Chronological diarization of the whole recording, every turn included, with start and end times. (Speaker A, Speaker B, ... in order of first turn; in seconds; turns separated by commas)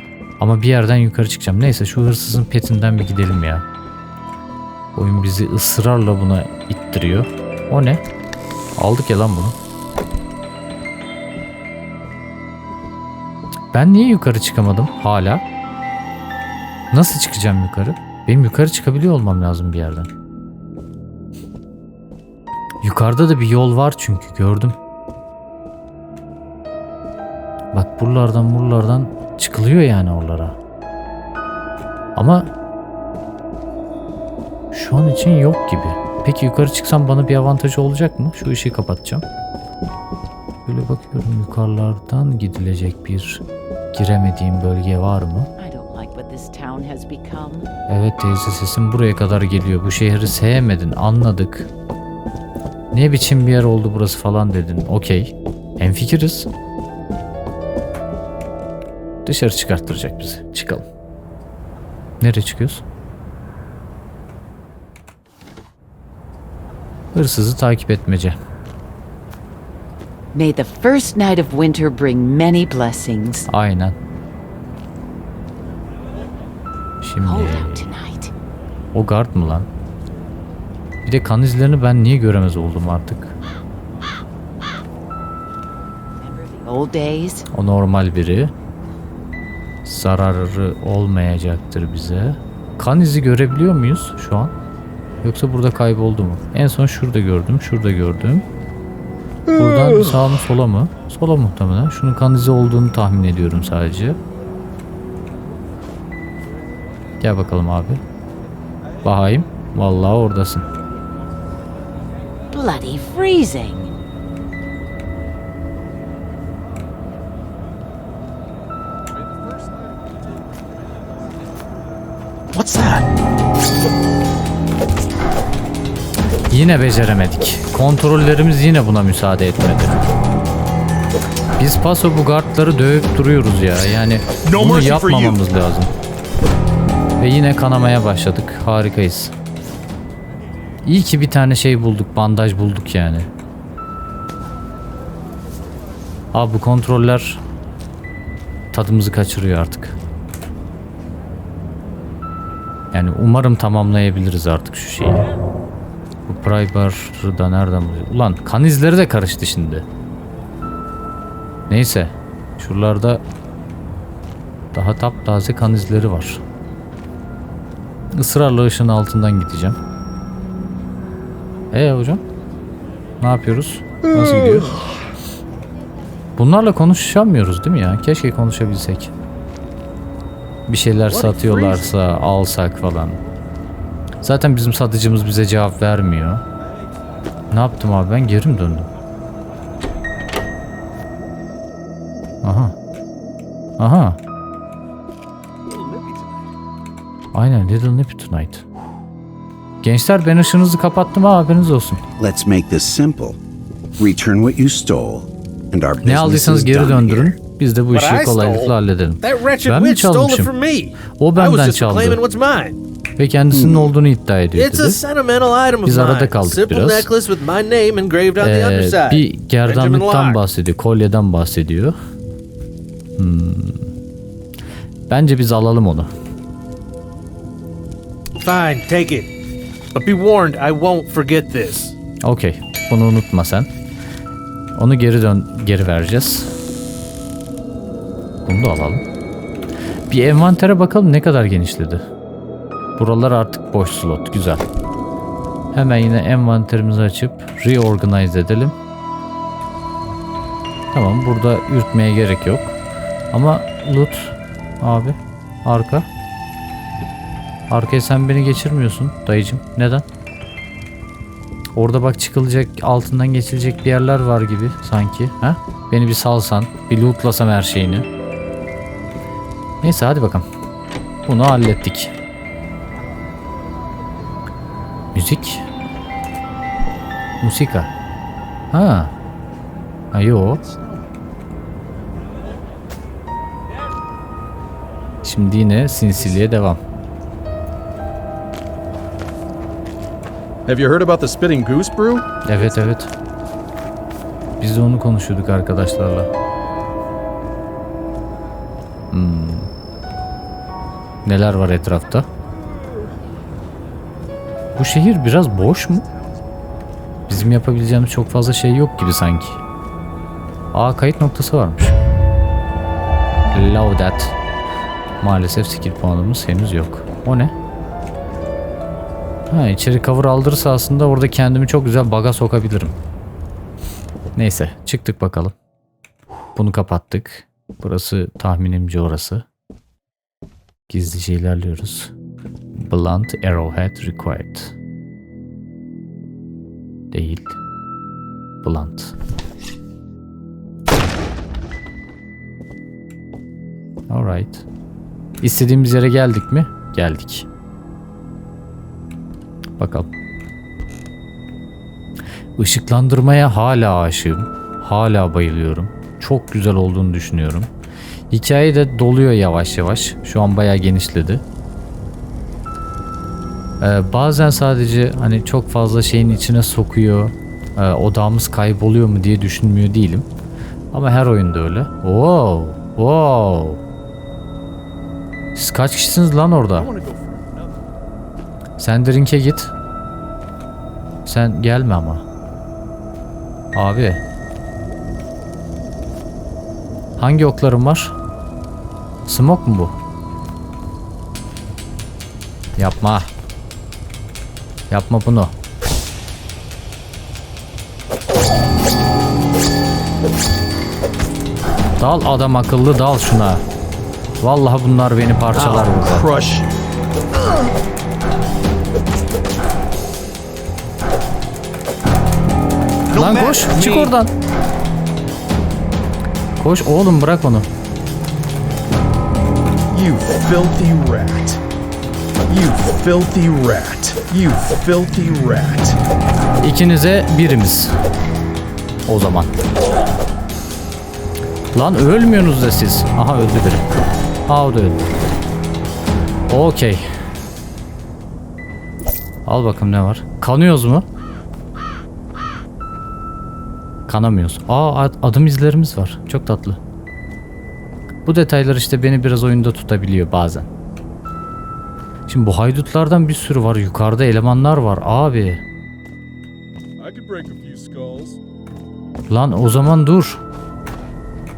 Speaker A: 0.4-3.6, Speaker A: 4.9-8.0, Speaker A: 8.8-9.6, Speaker A: 13.7-15.4, Speaker A: 16.9-20.1, Speaker A: 22.8-24.8, Speaker A: 27.7-30.6, Speaker A: 32.1-32.5, Speaker A: 34.7-39.2, Speaker A: 40.6-45.5, Speaker B: 45.6-47.7, Speaker A: 47.9-51.7, Speaker A: 52.9-56.5, Speaker A: 59.2-60.9, Speaker A: 62.2-62.8, Speaker A: 67.1-68.4, Speaker B: 70.3-73.5, Speaker A: 73.5-74.0, Speaker A: 77.0-77.9, Speaker B: 77.2-78.3, Speaker A: 78.9-79.7, Speaker A: 81.0-83.3, Speaker B: 86.2-87.5, Speaker A: 87.5-88.5, Speaker A: 89.8-94.5, Speaker A: 95.2-98.4, Speaker A: 99.5-104.2, Speaker A: 107.2-108.0, Speaker A: 109.0-110.7, Speaker B: 112.5-113.9, Speaker C: 119.1-121.1, Speaker A: 126.5-129.9, Speaker A: 131.6-135.9, Speaker C: 134.4-135.4, Speaker A: 137.2-139.3, Speaker A: 140.8-143.3, Speaker A: 146.3-147.4, Speaker A: 148.7-149.9, Speaker A: 152.9-155.2, Speaker A: 156.3-159.8, Speaker A: 161.7-163.2, Speaker A: 164.7-166.4, Speaker A: 168.1-169.8, Speaker A: 171.7-172.2, Speaker A: 173.2-174.7, Speaker A: 176.4-179.1, Speaker A: 180.7-183.2, Speaker D: 181.1-181.7, Speaker A: 184.2-186.4, Speaker A: 187.5-188.9, Speaker A: 192.4-192.8, Speaker A: 193.8-194.2, Speaker C: 195.7-196.4, Speaker A: 197.3-198.6, Speaker A: 199.8-202.0, Speaker E: 202.2-203.4, Speaker E: 204.0-207.3, Speaker A: 206.0-210.5, Speaker D: 207.9-212.8, Speaker A: 211.2-212.2, Speaker A: 213.2-215.0, Speaker E: 213.5-213.9, Speaker D: 214.5-220.4, Speaker A: 215.8-217.1, Speaker A: 218.4-221.9, Speaker A: 223.2-223.9, Speaker A: 225.1-226.1, Speaker D: 228.4-229.3, Speaker D: 229.9-231.9, Speaker A: 232.2-233.7, Speaker A: 234.7-236.5, Speaker A: 238.4-239.0, Speaker A: 240.1-242.0, Speaker A: 243.0-244.6, Speaker A: 245.7-248.7, Speaker A: 250.9-252.8, Speaker A: 253.3-256.1, Speaker A: 257.7-260.1, Speaker A: 261.7-268.1, Speaker A: 269.8-270.4, Speaker A: 271.2-272.1, Speaker A: 275.1-275.6, Speaker A: 277.4-277.9, Speaker A: 278.7-279.1, Speaker A: 280.1-280.6, Speaker C: 280.6-281.0, Speaker A: 285.2-286.8, Speaker C: 290.6-292.3, Speaker A: 292.4-293.1, Speaker A: 294.6-296.3, Speaker A: 299.1-299.7, Speaker A: 301.2-302.3, Speaker A: 304.8-306.1, Speaker A: 307.3-309.6, Speaker A: 310.7-311.9, Speaker A: 313.5-314.4, Speaker A: 315.2-317.5, Speaker A: 319.5-323.0, Speaker A: 324.3-325.5, Speaker A: 326.6-329.4, Speaker A: 330.9-332.1, Speaker A: 332.8-334.7, Speaker A: 337.1-337.6, Speaker A: 338.6-339.1, Speaker A: 344.1-344.6, Speaker A: 345.4-347.5, Speaker A: 349.8-350.1, Speaker A: 352.6-357.7, Speaker A: 358.3-361.4, Speaker A: 363.8-370.2, Speaker A: 370.9-373.8, Speaker A: 375.5-376.9, Speaker C: 376.7-377.9, Speaker A: 378.8-379.7, Speaker A: 381.2-382.2, Speaker A: 383.7-384.2, Speaker A: 387.2-388.1, Speaker A: 389.3-389.9, Speaker A: 392.8-393.3, Speaker A: 394.9-395.5, Speaker A: 402.0-403.6, Speaker A: 404.4-406.3, Speaker C: 405.5-406.8, Speaker D: 413.1-414.1, Speaker A: 413.1-414.3, Speaker A: 416.6-417.7, Speaker C: 419.9-421.6, Speaker C: 422.5-426.0, Speaker A: 426.6-427.9, Speaker A: 429.1-429.5, Speaker A: 431.7-433.8, Speaker A: 434.5-435.1, Speaker A: 436.5-437.1, Speaker A: 439.4-441.1, Speaker A: 444.1-446.8, Speaker A: 448.2-450.7, Speaker A: 452.3-455.6, Speaker C: 457.0-458.4, Speaker A: 459.3-460.4